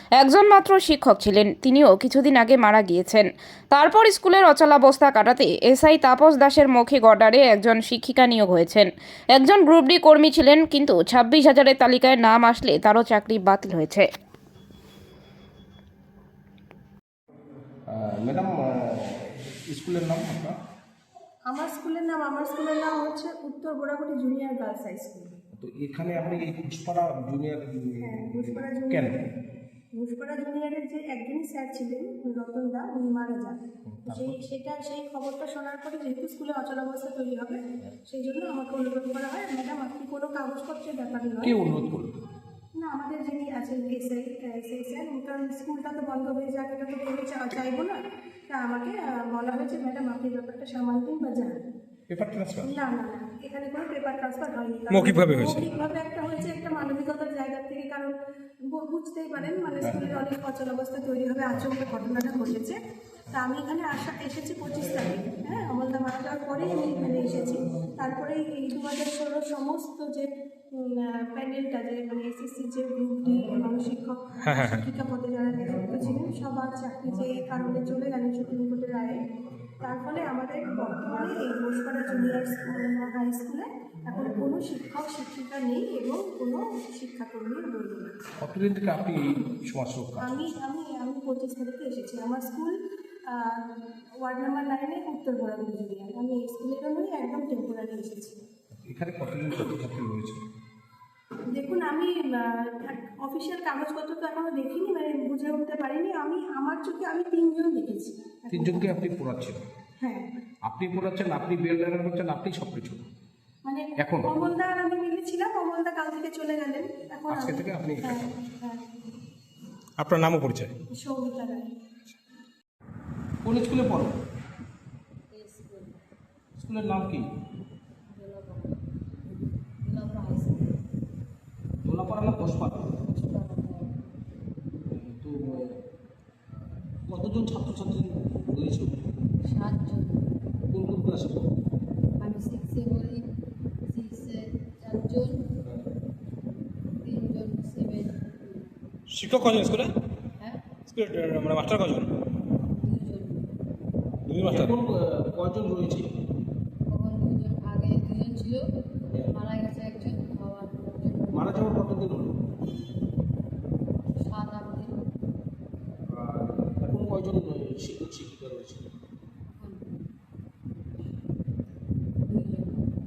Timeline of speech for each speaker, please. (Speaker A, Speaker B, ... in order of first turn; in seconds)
Speaker A: 0.2-14.1
Speaker B: 17.9-20.6, 25.5-29.2, 33.9-34.4, 41.4-42.3, 52.1-52.7, 88.4-90.5, 98.7-100.4, 108.5-109.6, 110.7-113.0, 114.0-114.3, 117.3-118.3, 123.4-124.2, 126.6-127.3, 131.8-132.9, 134.9-135.8, 136.9-139.2, 140.7-141.5, 145.6-145.9, 154.4-156.1, 161.3-162.4, 166.0-168.9
Speaker C: 21.5-25.3, 28.0-29.2, 29.9-41.5, 42.8-51.6, 52.6-58.1, 58.7-62.8, 63.3-79.2, 79.8-88.1, 90.2-92.8, 93.3-93.6, 94.2-98.4, 101.5-108.9, 110.0-110.3, 113.6-118.9, 120.9-121.7
Speaker D: 54.9-55.6, 74.4-74.8, 120.0-120.7, 149.1-149.9, 150.9-152.2, 154.2-154.8
Speaker E: 125.3-126.0, 128.1-128.8, 129.3-130.8, 133.0-134.0, 139.4-140.3, 142.2-143.3, 143.8-145.5, 147.0-148.9, 150.4-150.7, 152.7-153.5, 156.9-158.7, 159.3-161.8, 164.2-165.0, 169.5-170.1, 172.2-172.8